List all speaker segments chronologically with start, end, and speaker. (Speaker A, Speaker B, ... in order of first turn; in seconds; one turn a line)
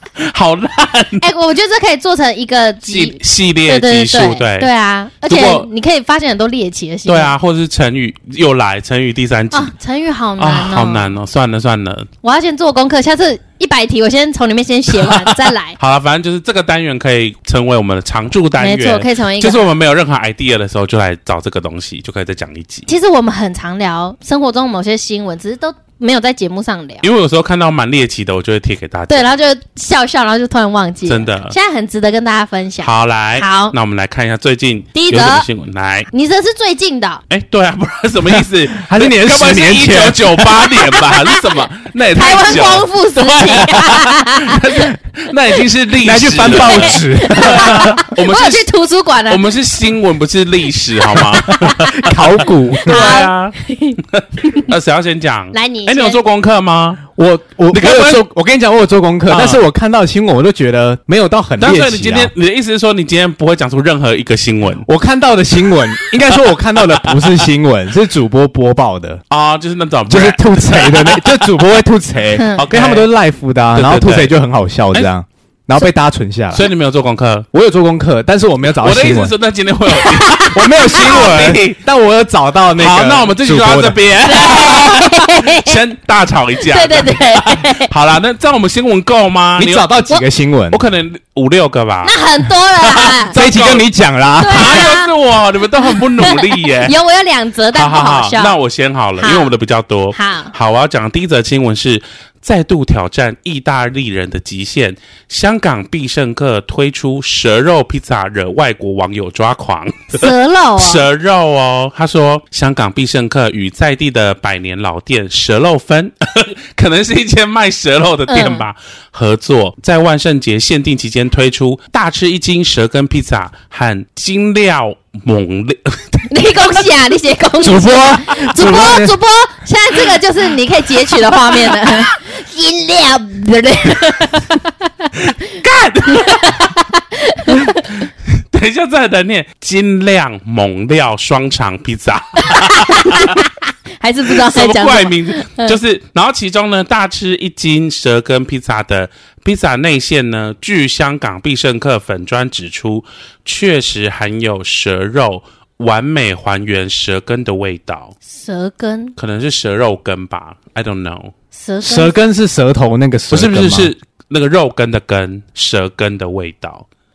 Speaker A: 0.2-1.2
Speaker B: 1.2-7.3
Speaker A: 2.8-4.7
Speaker A: 5.2-5.7
Speaker A: 7.0-9.7
Speaker B: 9.5-11.2
Speaker A: 10.4-12.1
Speaker B: 12.2-15.8
Speaker A: 15.8-22.9
Speaker B: 18.6-19.7
Speaker B: 22.9-27.0
Speaker A: 27.0-29.3
Speaker B: 29.1-33.7
Speaker A: 31.1-31.5
Speaker A: 32.8-36.1
Speaker B: 34.9-35.5
Speaker B: 36.1-37.2
Speaker A: 37.3-48.6
Speaker C: 38.4-41.0
Speaker B: 42.1-44.9
Speaker C: 46.0-48.0
Speaker B: 46.4-49.5
Speaker A: 49.3-57.0
Speaker B: 51.5-52.0
Speaker C: 51.5-53.2
Speaker B: 52.8-54.0
Speaker B: 55.5-56.2
Speaker C: 57.1-62.3
Speaker A: 57.7-58.2
Speaker A: 59.3-59.6
Speaker A: 61.6-64.8
Speaker C: 64.8-69.2
Speaker A: 69.3-71.6
Speaker C: 70.1-76.7
Speaker B: 72.3-72.6
Speaker A: 72.5-73.1
Speaker A: 73.7-74.3
Speaker A: 76.5-77.5
Speaker C: 77.5-79.3
Speaker A: 78.8-81.8
Speaker B: 79.9-81.2
Speaker C: 80.5-84.0
Speaker A: 82.8-89.9
Speaker B: 84.2-85.8
Speaker B: 86.6-87.9
Speaker C: 89.6-90.8
Speaker A: 90.7-92.1
Speaker B: 92.0-93.4
Speaker A: 92.8-93.9
Speaker C: 93.3-94.9
Speaker B: 94.4-95.1
Speaker A: 94.5-96.9
Speaker B: 95.8-98.5
Speaker A: 97.7-126.3
Speaker B: 99.2-99.5
Speaker B: 100.1-100.5
Speaker B: 110.1-111.0
Speaker B: 118.3-118.7
Speaker B: 126.3-135.1
Speaker C: 127.6-129.1
Speaker A: 135.2-136.7
Speaker B: 136.1-138.0
Speaker A: 137.5-143.4
Speaker B: 142.5-145.8
Speaker A: 144.3-158.1
Speaker B: 158.3-159.1
Speaker A: 159.2-161.3
Speaker B: 161.5-162.2
Speaker C: 161.8-163.9
Speaker A: 163.3-166.8